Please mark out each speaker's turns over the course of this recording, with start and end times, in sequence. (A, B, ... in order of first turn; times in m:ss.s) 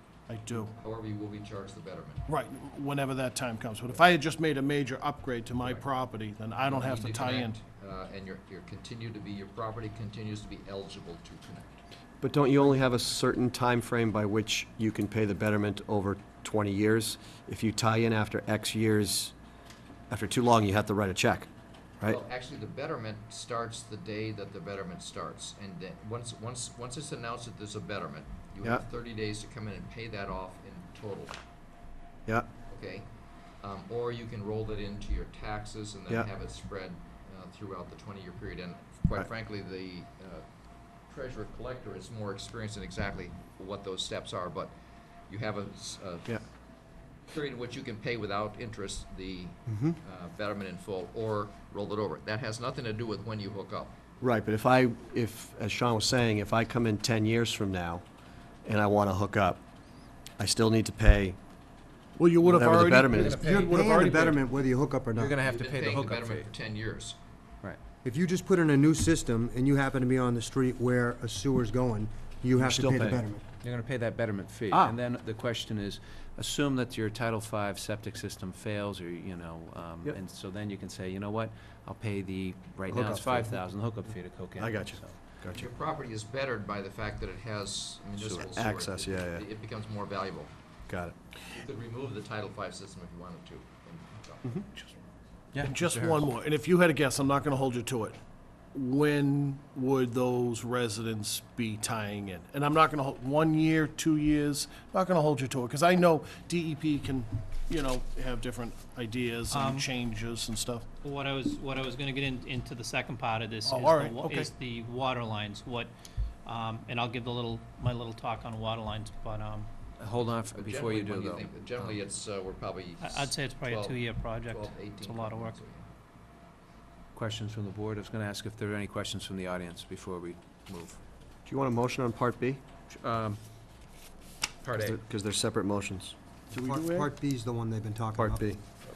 0:00.3-0:00.7 A
0:00.5-0:02.2 B
0:02.3-0:07.6 A
0:05.6-0:05.8 B
0:06.6-0:11.8 B
0:12.2-0:19.3 C
0:20.1-0:21.5 C
0:22.0-0:31.4 B
0:32.7-0:33.1 B
0:33.6-0:40.4 B
0:41.1-0:44.7 B
0:45.3-0:46.3 B
0:47.3-0:54.0 B
0:49.7-0:50.0 D
0:54.2-0:58.0 C
0:58.6-0:59.6 C
1:00.4-1:01.4 C
1:02.2-1:04.4 A
1:02.4-1:03.4 C
1:02.5-1:03.9 E
1:03.2-1:05.3 D
1:05.1-1:06.5 E
1:05.4-1:07.2 B
1:08.0-1:13.4 D
1:12.6-1:13.2 C
1:13.6-1:25.2 E
1:14.7-1:15.0 C
1:22.9-1:23.6 C
1:24.6-1:25.7 C
1:25.5-1:30.5 B
1:28.3-1:29.4 C
1:30.9-1:31.1 C
1:31.5-1:35.0 B
1:35.5-1:36.2 E
1:35.6-1:38.2 A
1:38.7-1:50.8 A
1:49.5-1:49.9 F
1:51.0-1:55.9 F
1:53.7-1:54.5 A
1:56.4-1:59.7 F
2:00.0-2:01.9 E
2:00.5-2:05.8 B
2:03.0-2:05.6 F
2:07.1-2:11.0 E
2:11.4-2:12.6 C
2:12.9-2:13.4 E
2:14.6-2:15.0 E
2:14.8-2:16.1 C
2:16.5-2:18.5 D
2:16.5-2:17.1 A
2:18.2-2:18.6 C